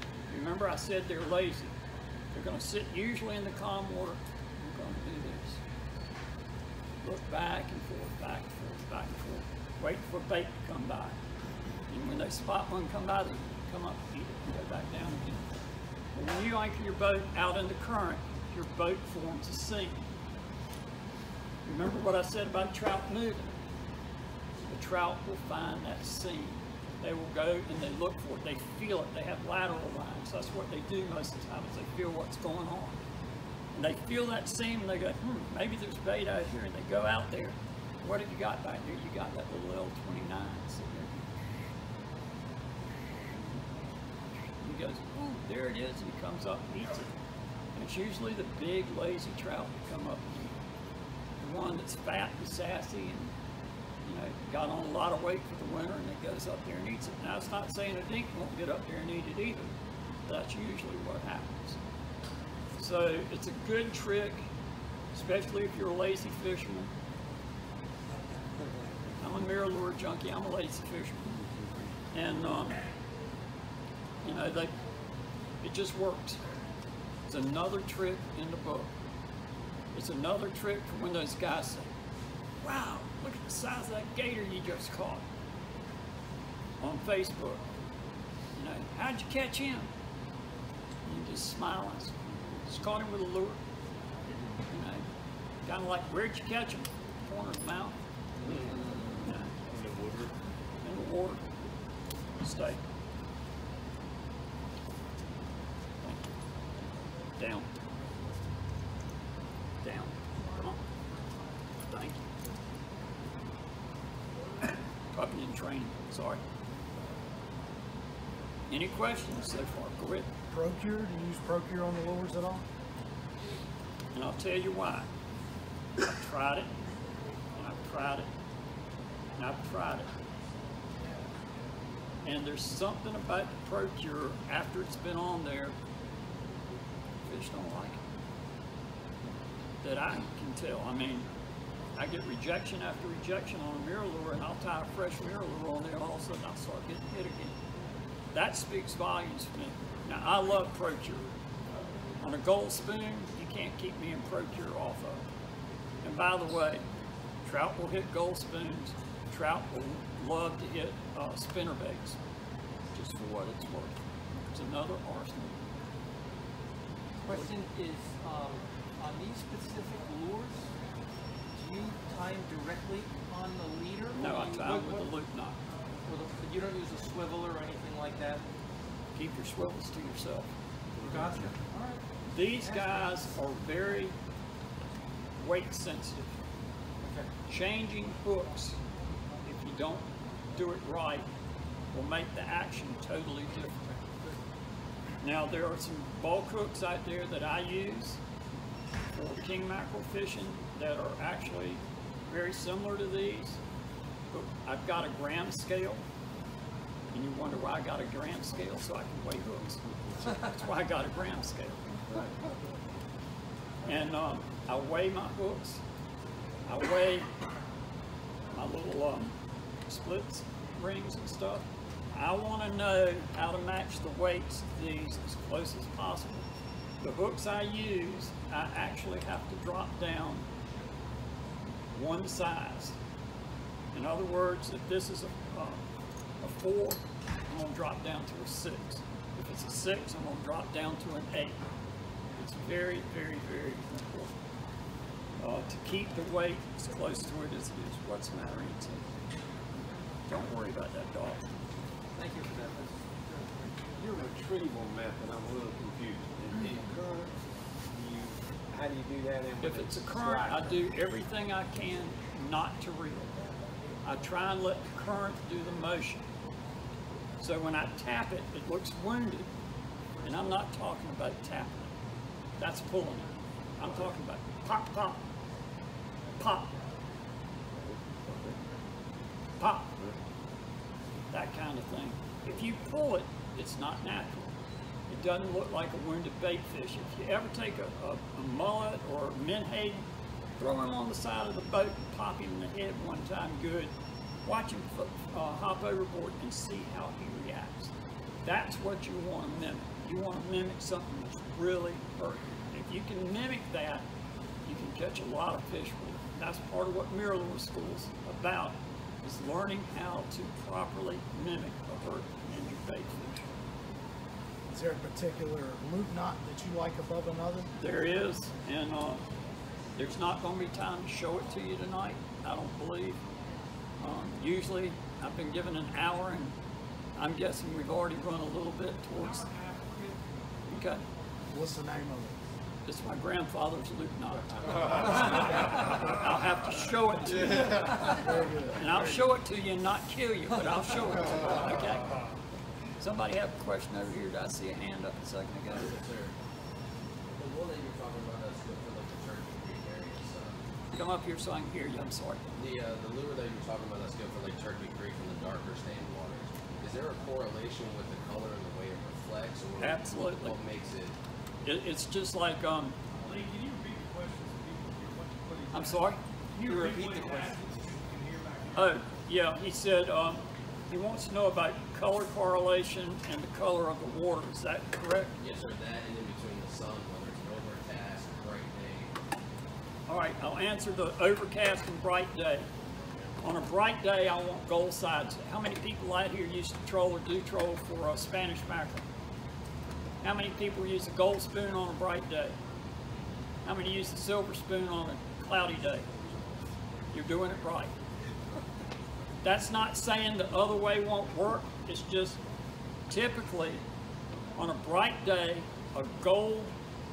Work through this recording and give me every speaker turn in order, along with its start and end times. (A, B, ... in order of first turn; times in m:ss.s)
0:00.3-0:01.7 A
0:02.3-0:05.6 A
0:07.0-0:11.2 A
0:11.9-0:15.5 A
0:16.1-0:20.1 A
0:21.6-0:23.6 A
0:24.7-0:33.0 A
0:33.8-0:41.2 A
0:44.6-0:47.1 A
0:47.7-0:50.6 A
0:51.4-0:53.3 A
0:54.0-0:59.7 A
1:00.2-1:01.8 A
1:02.8-1:04.5 A
1:05.1-1:06.9 A
1:09.2-1:11.3 A
1:12.1-1:12.8 A
1:14.2-1:14.7 A
1:15.6-1:16.4 A
1:17.3-1:18.9 A
1:19.9-1:21.9 A
1:22.6-1:25.2 A
1:26.8-1:27.6 A
1:28.6-1:29.9 A
1:31.0-1:32.1 A
1:32.7-1:33.6 A
1:34.7-1:35.0 A
1:35.6-1:38.0 A
1:38.4-1:39.1 B
1:39.2-1:39.5 A
1:39.6-1:40.4 B
1:40.8-1:41.4 A
1:42.4-1:42.8 A
1:46.0-1:46.3 A
1:47.4-1:47.7 A
1:49.8-1:50.8 A
1:51.9-1:52.3 A
1:55.1-1:56.4 A
1:58.7-2:00.3 A
2:00.5-2:02.6 C
2:04.1-2:05.1 A
2:06.0-2:06.7 A
2:07.6-2:08.3 A
2:09.4-2:10.1 A
2:12.2-2:15.8 A
2:17.2-2:18.0 A
2:19.8-2:21.3 A
2:22.0-2:27.6 A
2:28.3-2:31.2 A
2:32.2-2:35.2 A
2:36.0-2:36.8 A
2:37.4-2:42.2 A
2:42.9-2:45.6 A
2:47.2-2:50.7 D
2:51.5-2:55.1 D
2:54.1-2:55.6 A
2:56.0-2:58.4 D
2:59.1-3:00.5 A
3:01.0-3:03.2 D
3:02.3-3:04.2 A
3:05.4-3:06.2 A
3:07.0-3:07.3 D
3:07.5-3:08.8 A
3:09.4-3:11.3 A
3:11.9-3:13.8 A
3:13.9-3:14.4 D
3:15.2-3:18.2 A
3:19.1-3:23.6 A
3:24.3-3:26.0 A
3:27.1-3:32.1 A
3:33.8-3:35.8 A
3:36.6-3:37.3 A
3:38.5-3:39.3 A
3:39.9-3:46.5 A
3:47.0-3:50.5 A
3:51.9-3:53.0 A
3:53.9-3:55.8 A
3:56.4-4:01.6 A
4:02.4-4:04.3 A
4:05.4-4:09.0 A
4:10.3-4:11.4 A
4:12.2-4:13.6 D
4:14.0-4:17.4 B
4:17.9-4:20.8 B
4:19.6-4:23.3 A
4:24.0-4:26.2 A
4:27.4-4:29.5 A
4:30.2-4:31.9 A
4:32.6-4:35.2 A
4:36.4-4:36.7 A
4:37.9-4:38.6 B
4:39.6-4:39.9 A
4:41.3-4:44.6 A
4:45.1-4:50.1 A
4:50.6-4:57.9 A
4:58.4-5:04.1 A
5:04.6-5:13.4 A
5:14.7-5:17.7 C
5:17.8-5:19.2 A
5:20.0-5:23.2 A
5:24.0-5:26.5 A
5:27.2-5:29.5 A
5:29.5-5:30.1 E
5:30.6-5:31.0 A
5:31.5-5:32.4 C
5:32.8-5:42.2 A
5:38.1-5:38.9 C
5:43.0-5:45.9 A
5:45.7-5:46.3 F
5:47.4-5:50.6 F
5:50.9-5:52.4 A
5:52.6-6:01.1 F
5:59.8-6:00.6 A
6:01.6-6:03.0 A
6:03.2-6:09.0 E
6:05.7-6:07.0 A
6:06.7-6:07.6 D
6:08.7-6:15.4 A
6:15.4-6:19.1 F
6:20.1-6:22.7 A
6:23.4-6:29.1 A
6:30.2-6:32.6 A
6:33.6-6:36.1 A
6:37.1-6:37.9 A
6:39.4-6:42.4 A
6:43.1-6:43.8 A
6:44.5-6:46.7 A